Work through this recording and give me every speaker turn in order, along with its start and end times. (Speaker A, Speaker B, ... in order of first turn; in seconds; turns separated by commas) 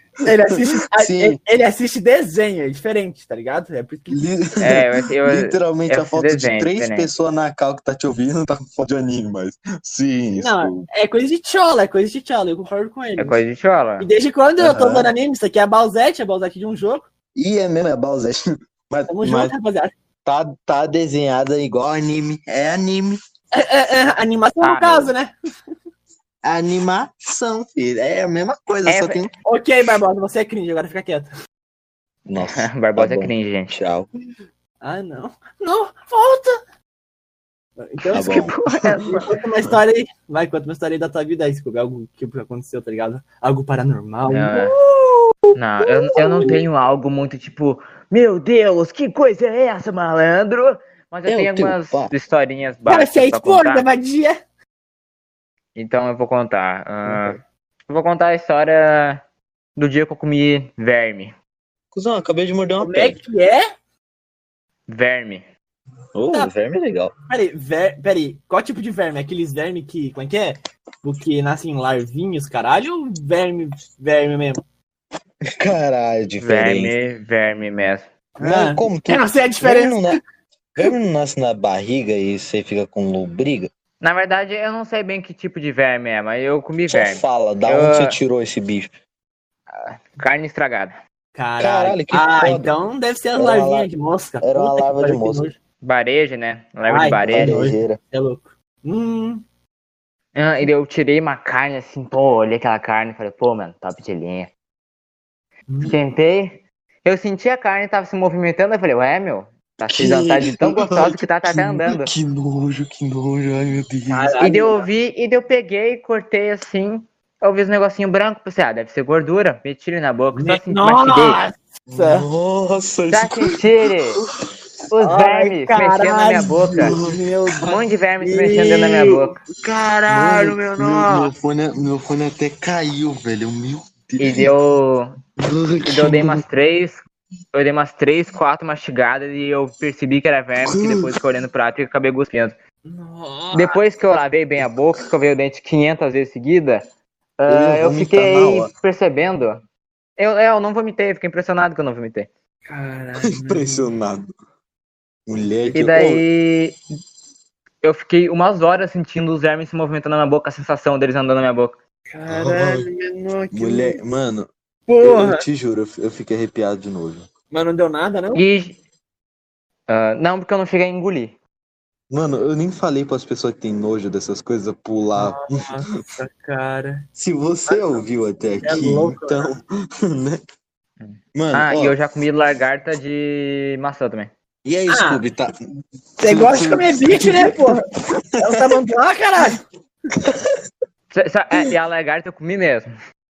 Speaker A: 0.2-4.2, Speaker B: 0.5-1.4, Speaker B: 4.1-10.9, Speaker C: 4.6-7.1, Speaker A: 10.3-13.4, Speaker C: 13.2-14.1, Speaker A: 14.0-17.1, Speaker B: 14.6-15.1, Speaker B: 17.4-19.5, Speaker A: 19.1-19.9, Speaker B: 20.2-23.2, Speaker A: 23.5-25.3, Speaker C: 24.6-25.1, Speaker B: 26.4-29.3, Speaker C: 28.9-29.2, Speaker A: 29.4-31.3, Speaker B: 32.2-34.1, Speaker C: 32.4-33.8, Speaker A: 34.8-36.6, Speaker A: 37.8-38.5, Speaker C: 38.1-39.4, Speaker B: 38.1-39.2, Speaker A: 39.1-46.6, Speaker C: 44.3-44.8, Speaker C: 45.5-53.8, Speaker B: 51.2-52.1, Speaker A: 52.9-54.4, Speaker C: 55.8-59.2, Speaker C: 59.8-61.3, Speaker B: 61.9-63.2, Speaker A: 62.8-63.6, Speaker C: 64.9-65.5, Speaker B: 66.1-67.1, Speaker A: 67.3-74.6, Speaker B: 75.5-76.9, Speaker C: 76.4-78.1, Speaker A: 78.4-80.2, Speaker B: 78.4-80.2, Speaker B: 80.8-83.7, Speaker C: 84.0-88.2, Speaker B: 86.9-88.9, Speaker C: 89.7-91.0, Speaker A: 91.3-95.6, Speaker B: 91.6-92.7, Speaker B: 93.3-93.9, Speaker B: 94.4-95.5, Speaker C: 95.8-97.7, Speaker A: 96.9-99.4, Speaker B: 97.3-98.0, Speaker C: 100.3-104.5, Speaker A: 105.7-105.9, Speaker C: 105.8-112.1, Speaker B: 109.9-114.3, Speaker A: 114.1-114.8, Speaker C: 114.4-121.4, Speaker A: 120.3-122.2, Speaker B: 121.9-123.6, Speaker C: 123.1-124.2, Speaker C: 124.9-127.0, Speaker A: 125.0-129.1, Speaker B: 126.8-127.8, Speaker C: 127.6-129.4, Speaker A: 129.6-131.3, Speaker B: 130.0-134.5, Speaker C: 134.2-135.1, Speaker B: 135.4-136.4, Speaker C: 135.8-137.0, Speaker C: 137.5-142.5, Speaker B: 140.6-141.1, Speaker A: 142.8-143.8, Speaker C: 143.5-146.8, Speaker C: 147.4-149.6, Speaker B: 147.5-148.7, Speaker C: 150.2-152.3, Speaker A: 152.6-153.9, Speaker B: 153.2-154.3, Speaker B: 155.3-156.2, Speaker C: 155.7-156.8, Speaker C: 157.8-161.8, Speaker A: 162.1-164.0, Speaker B: 162.3-162.9, Speaker B: 163.5-164.5, Speaker A: 164.9-165.4, Speaker B: 165.0-167.3, Speaker A: 167.5-168.4, Speaker C: 168.3-168.8, Speaker C: 169.9-171.3, Speaker B: 172.1-175.7, Speaker A: 175.2-177.1, Speaker B: 177.2-180.4, Speaker A: 177.7-178.0, Speaker A: 178.6-179.5, Speaker C: 181.0-184.3, Speaker B: 181.3-181.9, Speaker B: 184.6-185.5, Speaker A: 184.9-185.2, Speaker A: 186.2-187.8, Speaker B: 186.2-188.6, Speaker A: 188.4-189.6, Speaker B: 190.2-190.5, Speaker C: 191.1-192.9